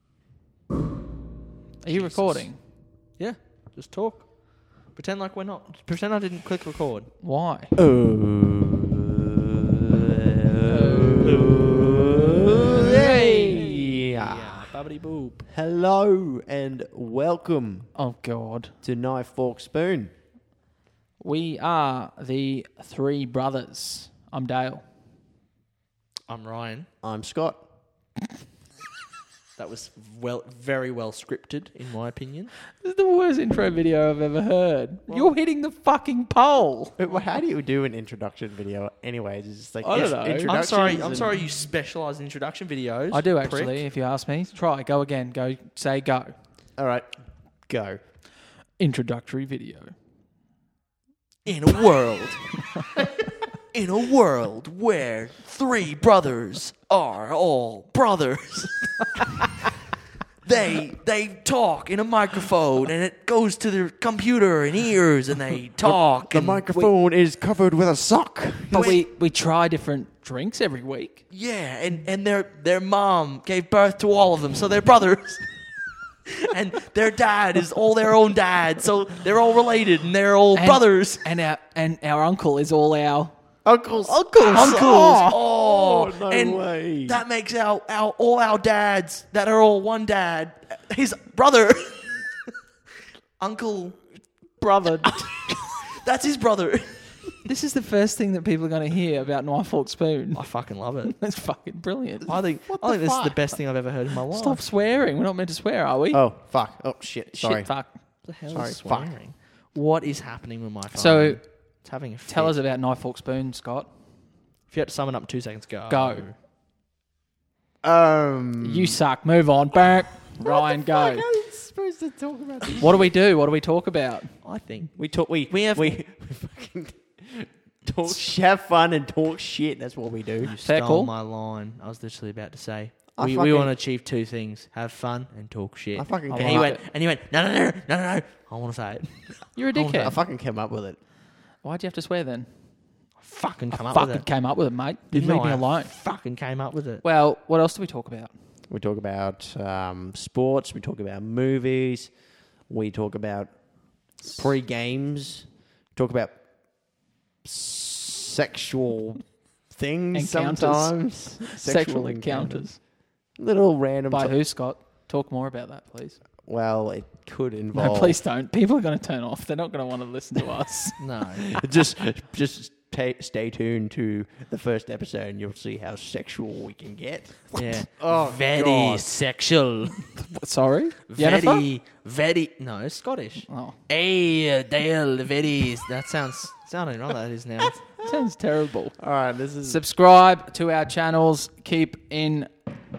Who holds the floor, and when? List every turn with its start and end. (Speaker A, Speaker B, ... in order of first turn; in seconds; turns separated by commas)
Speaker A: 1.8-2.6, Speaker B: 1.9-2.6, Speaker B: 3.1-7.1, Speaker A: 7.2-7.7, Speaker C: 7.8-9.0, Speaker C: 9.9-14.7, Speaker A: 10.7-11.4, Speaker B: 11.3-11.7, Speaker A: 12.7-14.0, Speaker B: 14.1-15.4, Speaker C: 15.5-17.9, Speaker A: 17.9-18.7, Speaker C: 18.8-20.1, Speaker A: 21.2-24.8, Speaker B: 26.3-26.9, Speaker C: 27.0-27.6, Speaker B: 29.6-32.5, Speaker A: 32.7-37.0, Speaker B: 35.1-35.3, Speaker C: 37.0-41.3, Speaker A: 39.8-40.5, Speaker B: 40.4-43.8, Speaker A: 43.1-46.3, Speaker C: 46.8-47.1, Speaker C: 47.7-48.0, Speaker A: 48.8-50.0, Speaker B: 51.5-52.5, Speaker B: 53.7-59.4, Speaker B: 60.4-66.9, Speaker C: 65.8-69.0, Speaker A: 68.7-71.2, Speaker B: 68.7-69.0, Speaker B: 71.3-75.5, Speaker B: 76.4-81.3, Speaker A: 80.5-83.3, Speaker C: 83.7-87.2, Speaker A: 84.0-85.4, Speaker B: 84.4-92.3, Speaker B: 93.4-94.0, Speaker A: 94.6-95.3, Speaker B: 95.1-97.5, Speaker A: 97.5-100.5, Speaker B: 100.3-101.2, Speaker A: 101.0-102.4, Speaker B: 102.3-104.6, Speaker C: 102.7-103.4, Speaker A: 104.3-106.2, Speaker C: 106.1-107.8, Speaker A: 107.3-108.0, Speaker B: 108.2-112.6, Speaker C: 108.5-109.2, Speaker A: 110.9-111.4, Speaker A: 112.3-113.9, Speaker B: 114.7-116.3, Speaker A: 115.9-116.3, Speaker C: 117.8-119.0, Speaker A: 118.6-121.3, Speaker C: 120.4-123.1, Speaker A: 122.8-124.3, Speaker B: 124.4-125.0, Speaker C: 125.0-130.5, Speaker B: 125.5-126.0, Speaker B: 130.4-140.2, Speaker A: 130.6-131.1, Speaker C: 133.2-133.7, Speaker C: 136.0-136.7, Speaker A: 136.3-136.8, Speaker A: 139.6-140.2, Speaker C: 140.0-141.0, Speaker A: 141.6-142.5, Speaker B: 143.2-144.3, Speaker A: 143.7-145.9, Speaker B: 145.1-147.1, Speaker A: 147.0-148.3, Speaker C: 148.7-152.1, Speaker C: 152.7-153.5, Speaker C: 154.2-156.4, Speaker C: 157.4-164.4, Speaker A: 160.1-162.8, Speaker A: 164.1-166.2, Speaker C: 166.4-168.2, Speaker A: 167.7-171.0, Speaker B: 171.0-171.5, Speaker C: 171.4-179.1, Speaker B: 177.6-180.1, Speaker A: 180.2-181.7, Speaker B: 181.1-187.9, Speaker A: 183.5-183.8, Speaker A: 188.0-189.0, Speaker C: 189.0-189.8, Speaker A: 189.6-192.5